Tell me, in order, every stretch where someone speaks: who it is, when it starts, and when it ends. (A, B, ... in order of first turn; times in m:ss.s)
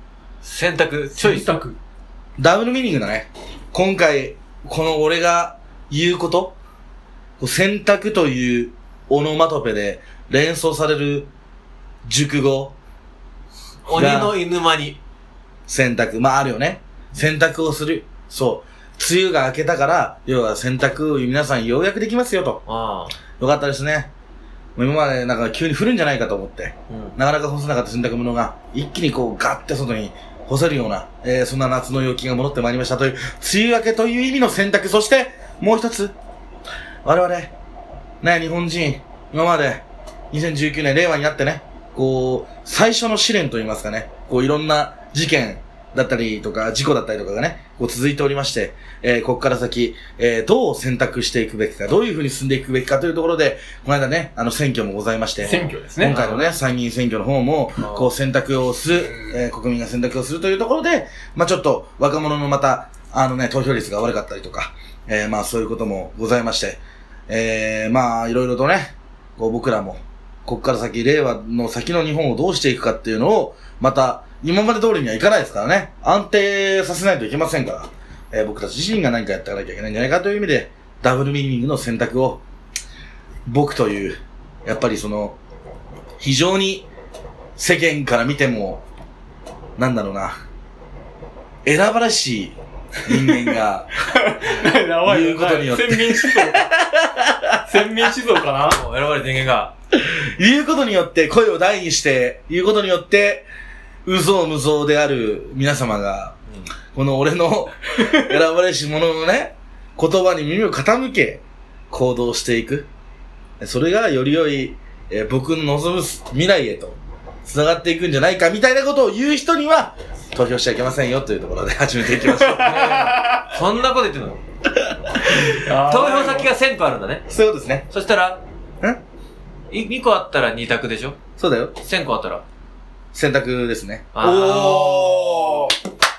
0:00.4-0:01.5 A
0:01.2-0:01.8 B
0:02.4-0:06.6 C
0:07.4-0:11.3 C
0:12.0-0:12.7 C
0:13.8-0:15.0 A
0:13.9-0:14.4 C
0:15.7-0:22.6 C
0:22.7-0:23.1 A
0:23.4-0:24.1 C
0:24.8-0:36.1 C
0:26.9-0:27.1 A
0:37.0-0:37.5 C
0:38.2-1:22.4 C
0:55.4-0:56.2 B
0:56.0-0:56.6 A
0:57.8-0:58.1 A
1:23.4-1:25.4 C
1:26.2-1:26.9 C
1:27.6-1:28.8 C
1:29.8-1:30.4 C
1:31.6-1:33.9 C
1:34.0-1:36.7 B
1:35.0-1:38.1 C
1:37.6-1:38.8 B
1:38.6-1:39.7 A
1:39.9-1:43.5 C
1:44.0-1:46.4 C
1:46.9-1:52.9 C
1:53.6-2:03.2 C
2:02.3-2:03.4 B
2:02.6-2:04.4 A
2:05.4-2:06.5 B
2:05.8-2:07.2 A
2:07.3-2:07.8 C
2:07.9-2:08.4 A
2:09.7-2:11.2 A
2:11.4-2:11.7 C
2:11.8-2:12.4 A
2:13.1-2:15.7 C
2:14.1-2:15.4 A